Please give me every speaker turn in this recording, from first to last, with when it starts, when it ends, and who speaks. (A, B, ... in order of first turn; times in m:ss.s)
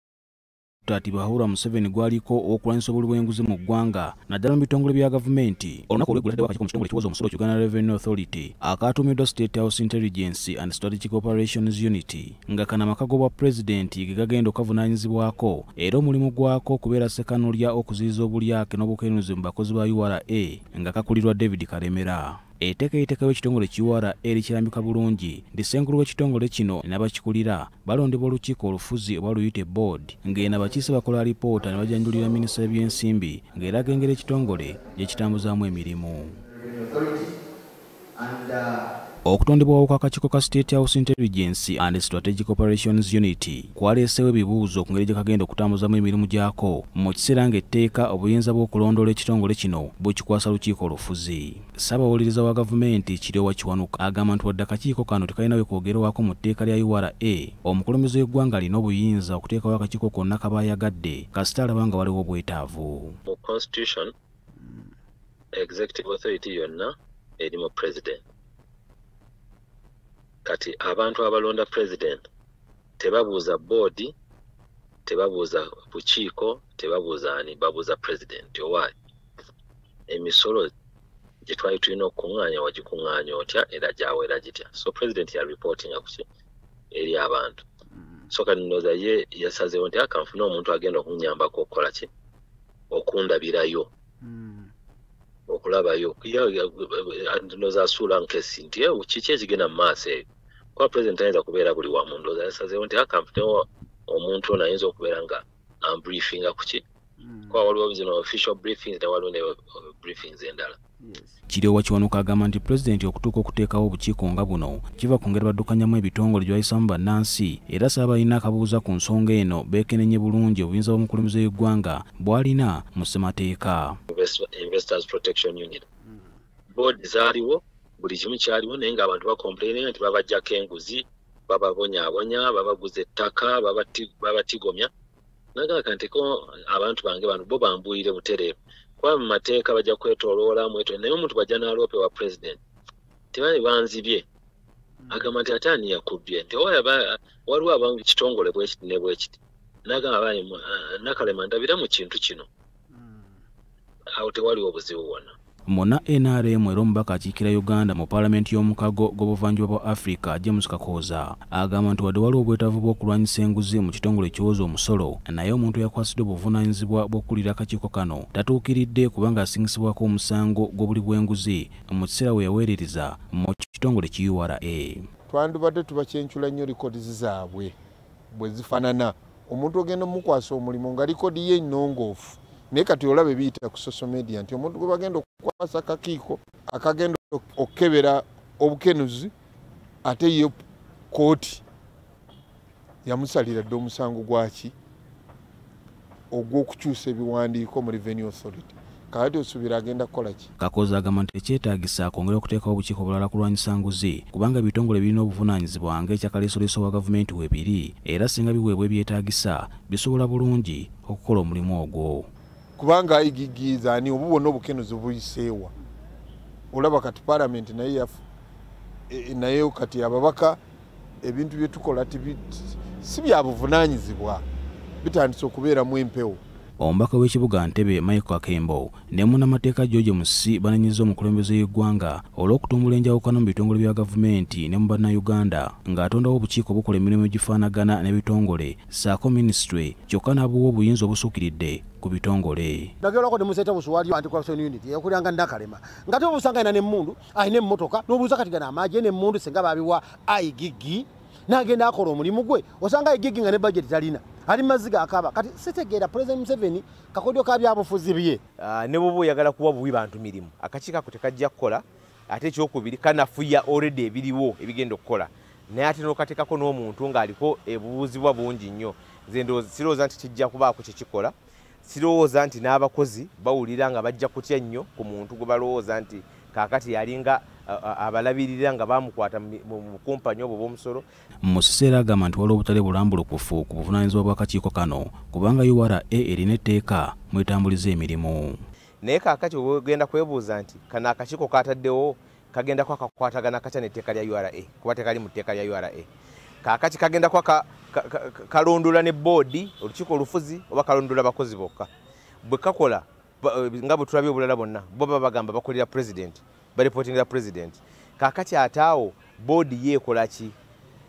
0:00.8-0:36.3 A
0:36.6-0:37.2 B
0:38.2-0:38.8 B
0:39.2-1:03.2 A
1:03.3-1:04.1 C
1:05.5-1:08.2 C
1:10.4-1:12.2 C
1:13.0-1:14.1 C
1:15.0-1:18.9 C
1:20.1-1:20.7 C
1:21.4-1:26.2 C
1:26.9-1:27.6 C
1:28.3-1:32.1 C
1:32.9-1:33.9 C
1:34.3-1:34.7 D
1:35.5-1:46.8 C
1:47.5-1:50.8 C
1:51.5-2:04.0 A
2:04.1-2:05.8 C
2:06.7-2:14.9 C
2:15.5-2:22.6 C
2:23.3-2:24.2 C
2:25.1-2:32.5 C
2:34.2-2:35.3 C
2:35.7-2:55.1 A
2:55.3-2:57.7 E
2:58.3-3:09.3 E
3:10.0-3:10.6 E
3:11.1-3:11.6 E
3:13.0-3:14.7 E
3:16.3-3:20.5 E
3:20.6-3:32.3 A
3:32.8-3:35.7 E
3:36.7-3:38.2 E
3:39.1-3:40.6 E
3:41.2-3:44.4 E
3:45.0-3:46.4 E
3:46.8-4:02.9 A
4:03.0-4:18.4 D
4:18.6-4:41.0 B
4:41.4-4:48.6 A
4:49.0-4:56.1 B
4:56.6-5:01.9 B
5:02.4-5:10.5 B